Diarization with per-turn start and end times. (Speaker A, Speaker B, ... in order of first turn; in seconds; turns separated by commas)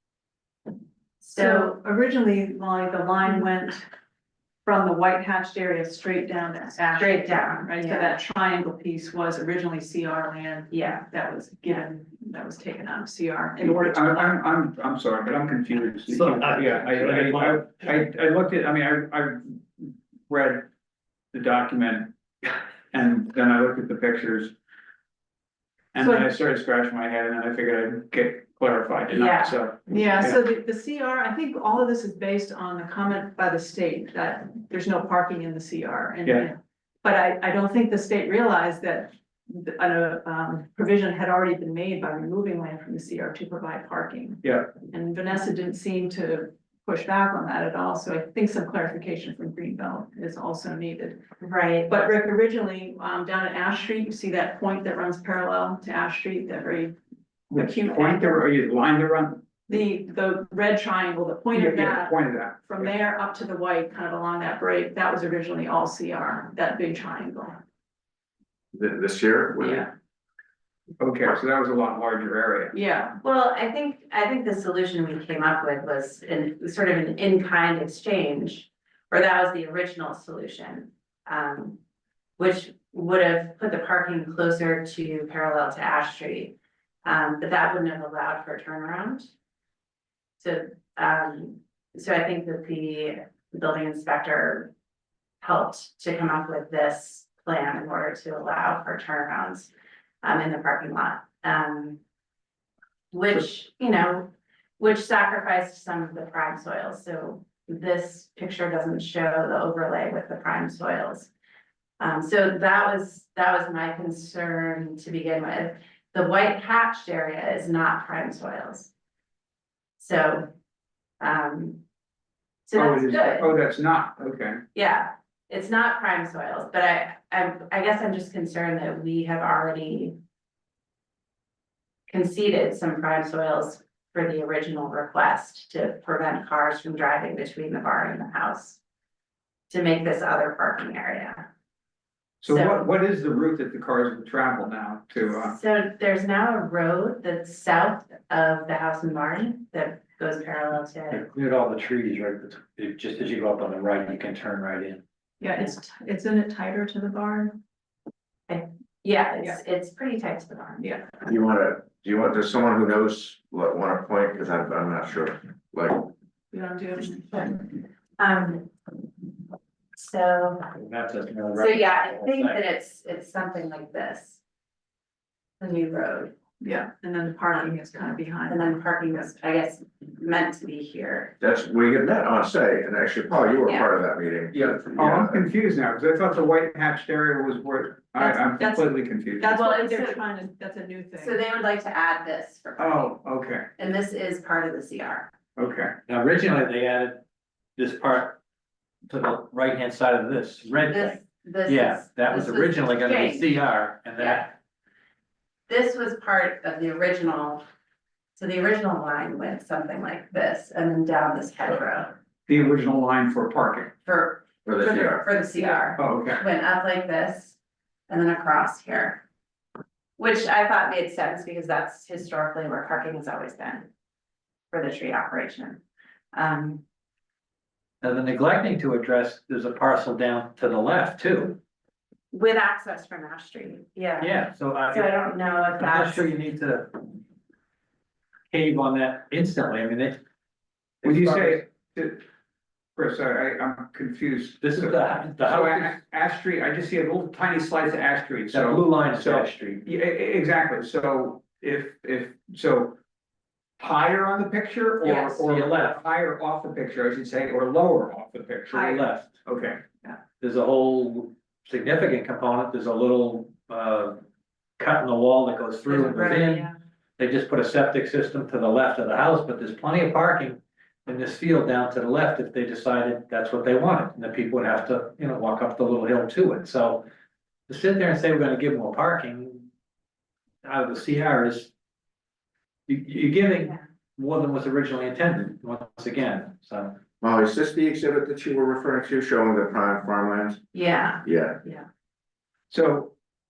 Speaker A: 1.2-1.8, Speaker B: 1.3-3.9, Speaker B: 4.7-14.4, Speaker A: 6.9-8.1, Speaker A: 10.7-11.1, Speaker C: 13.6-20.7, Speaker D: 16.1-17.9, Speaker C: 21.3-24.5, Speaker C: 25.9-30.4, Speaker B: 26.0-26.3, Speaker A: 29.1-29.5, Speaker B: 29.9-51.2, Speaker C: 44.4-44.7, Speaker A: 51.4-51.9, Speaker B: 51.9-57.0, Speaker C: 57.5-59.4, Speaker B: 57.5-58.4, Speaker B: 59.7-67.6, Speaker C: 61.5-62.9, Speaker E: 68.7-69.9, Speaker B: 69.6-69.9, Speaker C: 71.0-72.7, Speaker B: 72.7-73.2, Speaker A: 73.2-81.8, Speaker A: 82.4-89.3, Speaker A: 90.4-94.7, Speaker A: 95.4-99.7, Speaker A: 100.2-102.0, Speaker A: 103.1-111.3, Speaker A: 112.0-118.9, Speaker A: 120.0-120.5, Speaker A: 121.2-121.8, Speaker A: 122.7-123.5, Speaker C: 122.8-124.6, Speaker A: 124.7-130.2, Speaker A: 132.1-138.8, Speaker A: 139.7-141.5, Speaker C: 142.4-145.6, Speaker A: 142.5-142.8, Speaker A: 145.3-151.2, Speaker D: 151.1-155.0, Speaker B: 155.4-157.6, Speaker A: 158.5-160.9, Speaker E: 161.3-166.1, Speaker B: 166.5-167.3, Speaker A: 167.2-168.7, Speaker A: 169.9-170.7, Speaker D: 170.7-172.6, Speaker A: 171.6-174.4, Speaker A: 175.6-176.3, Speaker B: 176.6-179.3, Speaker A: 178.5-181.3, Speaker E: 181.4-185.4, Speaker A: 183.7-183.9, Speaker C: 184.6-189.5, Speaker B: 188.2-191.4, Speaker A: 189.5-190.2, Speaker A: 191.2-193.2, Speaker C: 192.8-193.7, Speaker A: 193.8-195.3, Speaker C: 195.6-195.9, Speaker D: 196.1-197.2, Speaker D: 197.8-198.4, Speaker D: 199.1-204.5, Speaker A: 200.9-203.6, Speaker A: 204.2-204.5, Speaker A: 205.7-207.6, Speaker A: 208.4-212.2, Speaker C: 212.5-213.9, Speaker A: 214.1-217.6, Speaker E: 214.7-215.3, Speaker C: 216.0-216.4, Speaker A: 218.1-219.2, Speaker A: 220.2-223.9, Speaker A: 224.7-225.8, Speaker A: 226.3-226.8, Speaker D: 228.0-231.6, Speaker A: 232.3-236.3, Speaker D: 234.2-237.1, Speaker D: 238.5-240.2, Speaker D: 241.0-241.6, Speaker C: 241.0-242.2, Speaker C: 243.0-253.0, Speaker D: 244.6-246.0, Speaker D: 248.5-249.8, Speaker C: 253.8-259.8, Speaker A: 255.1-255.3, Speaker D: 255.5-256.0, Speaker D: 258.7-259.3, Speaker D: 260.4-264.2, Speaker D: 264.8-277.1, Speaker A: 265.9-266.8, Speaker D: 277.7-279.7, Speaker D: 280.6-281.7, Speaker D: 282.9-287.0, Speaker E: 287.2-290.6, Speaker A: 290.7-291.9, Speaker E: 291.2-291.6, Speaker C: 292.7-293.1